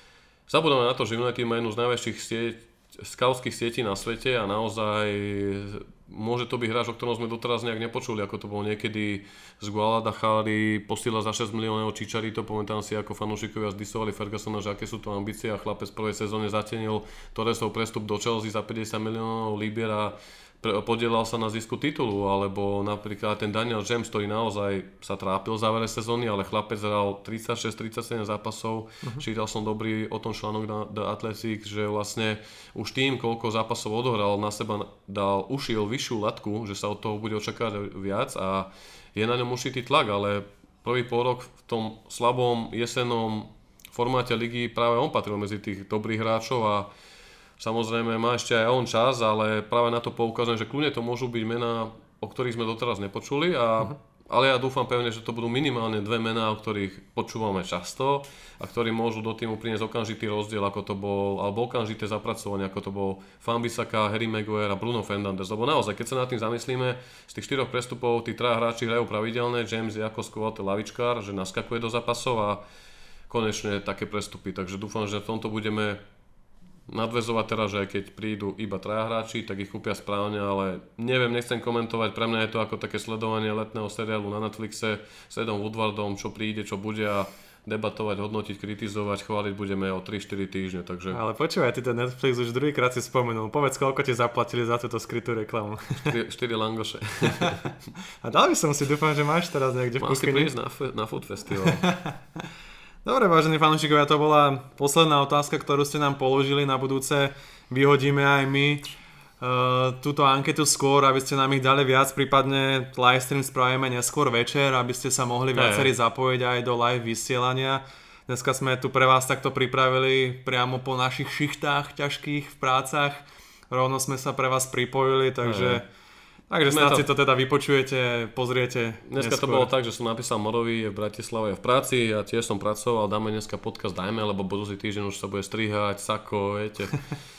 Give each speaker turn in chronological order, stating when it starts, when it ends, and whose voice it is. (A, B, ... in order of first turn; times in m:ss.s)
0:00.5-0:46.9 A
0:47.6-1:12.6 A
1:13.3-1:16.0 A
1:16.9-1:31.2 A
1:31.1-1:36.1 B
1:36.0-1:37.6 A
1:38.2-1:40.5 B
1:40.0-1:41.8 A
1:41.6-1:42.2 B
1:43.0-1:48.8 B
1:49.4-2:05.8 B
1:55.5-1:55.9 A
2:05.4-2:05.8 A
2:06.5-2:09.7 B
2:06.7-2:07.1 A
2:09.0-2:17.0 A